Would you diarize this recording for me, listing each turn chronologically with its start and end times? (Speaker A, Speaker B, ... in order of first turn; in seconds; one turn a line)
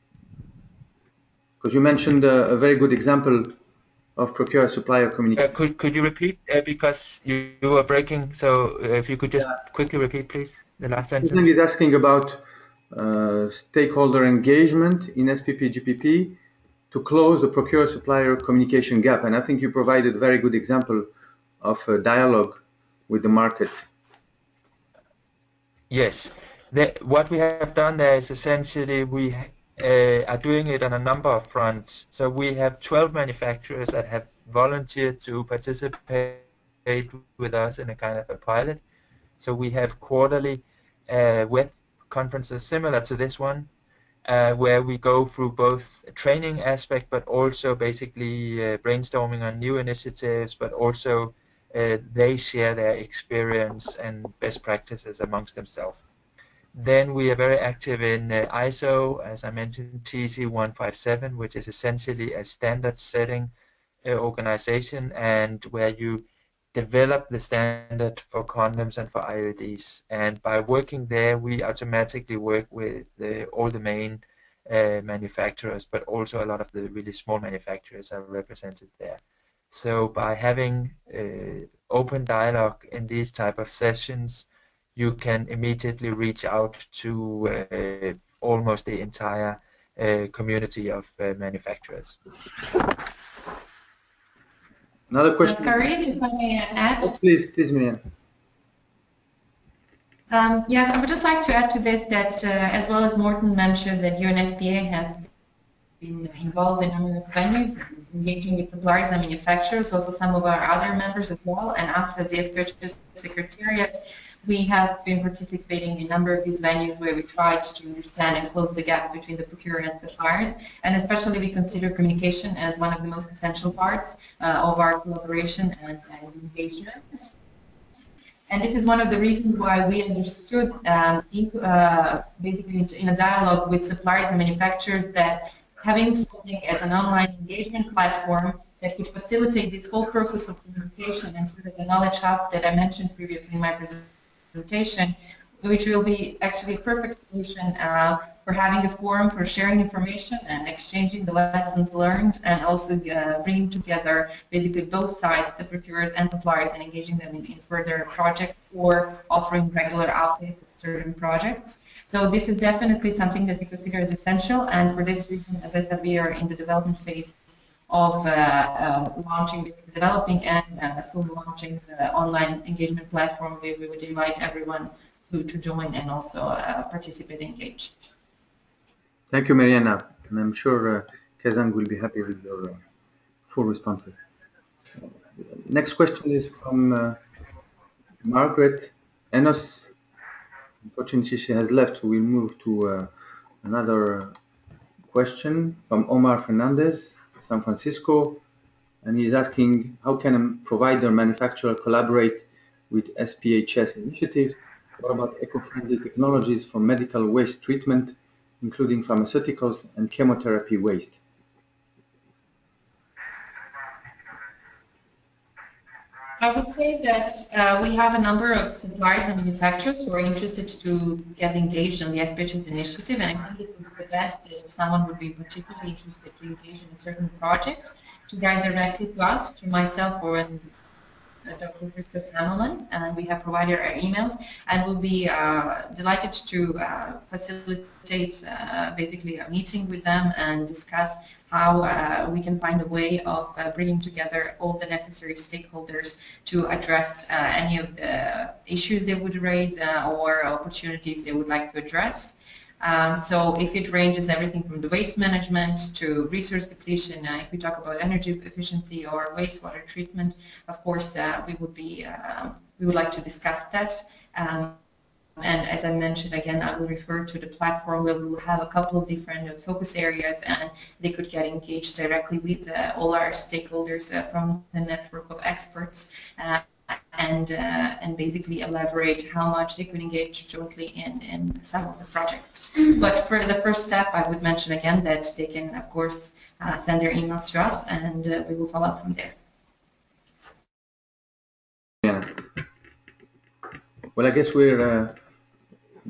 Speaker A: 1.6-3.5
Speaker A: 4.2-5.5
Speaker B: 5.4-11.5
Speaker A: 11.2-16.4
Speaker A: 16.9-21.1
Speaker A: 21.6-23.9
Speaker B: 25.9-38.8
Speaker B: 39.4-43.7
Speaker B: 44.2-56.0
Speaker B: 56.7-63.5
Speaker B: 64.0-92.2
Speaker A: 95.1-95.9
Speaker C: 95.4-97.2
Speaker A: 97.0-98.0
Speaker C: 100.3-105.3
Speaker C: 106.0-127.3
Speaker C: 128.5-167.4
Speaker C: 167.9-177.9
Speaker A: 179.3-182.8
Speaker A: 183.5-184.2
Speaker A: 185.5-187.2
Speaker A: 188.2-189.9
Speaker A: 190.9-193.1
Speaker A: 193.6-194.3
Speaker A: 195.1-198.4
Speaker A: 199.0-211.2
Speaker C: 216.4-230.7
Speaker C: 231.4-264.8
Speaker C: 265.4-289.4
Speaker A: 292.0-292.4
Speaker A: 294.1-295.2